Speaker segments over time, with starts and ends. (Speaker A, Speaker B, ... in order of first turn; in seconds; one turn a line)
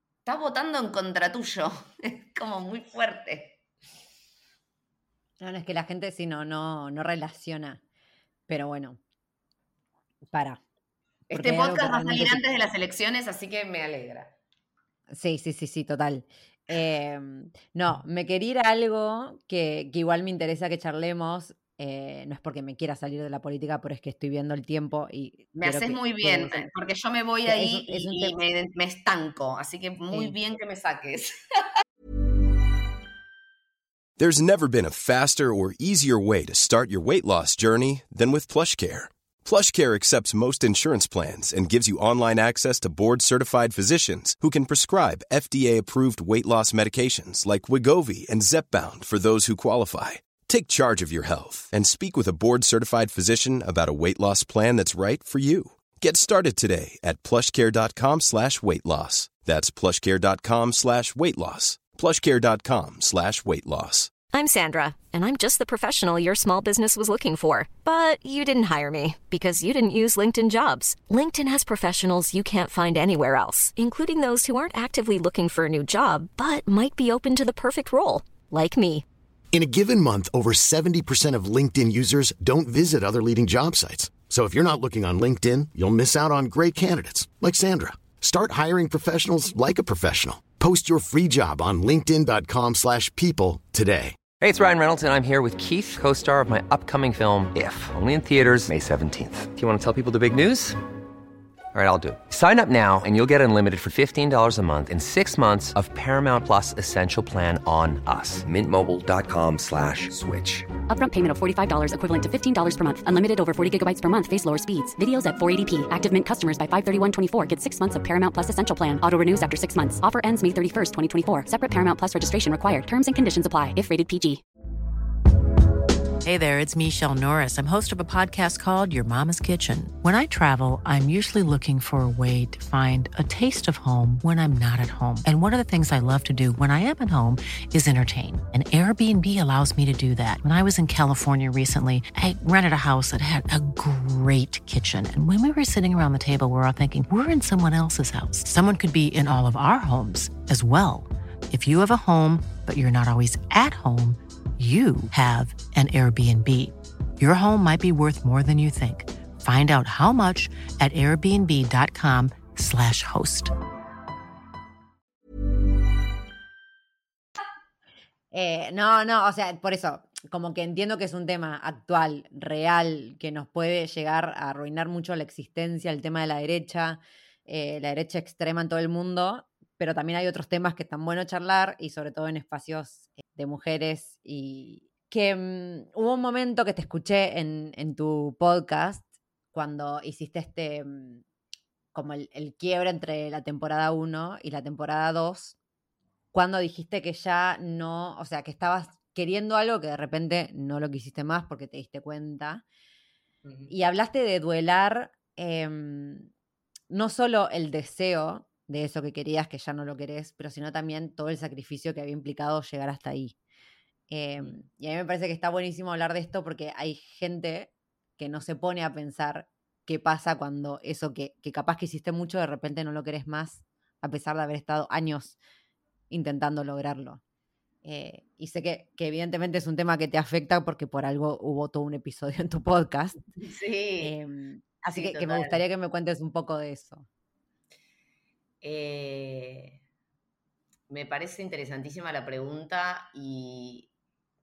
Speaker A: 0.2-3.6
Speaker B: 5.4-7.8
Speaker B: 8.5-9.0
Speaker B: 10.3-10.6
Speaker A: 11.3-14.4
Speaker B: 11.3-12.4
Speaker B: 15.1-26.7
Speaker A: 25.6-31.6
Speaker B: 27.4-28.4
Speaker C: 34.2-64.1
Speaker D: 64.3-79.0
Speaker E: 79.5-94.2
Speaker F: 94.4-100.8
Speaker F: 101.7-110.6
Speaker G: 110.9-124.4
Speaker H: 126.2-163.5
Speaker B: 168.3-191.2
Speaker B: 191.9-195.6
Speaker B: 196.3-202.6
Speaker A: 203.4-203.7
Speaker B: 203.7-206.3
Speaker B: 206.9-213.3
Speaker B: 214.1-225.4
Speaker B: 226.1-227.2
Speaker B: 227.8-233.2
Speaker A: 233.4-234.1
Speaker B: 234.0-237.1
Speaker A: 234.9-235.6
Speaker A: 238.6-239.8
Speaker A: 240.9-243.9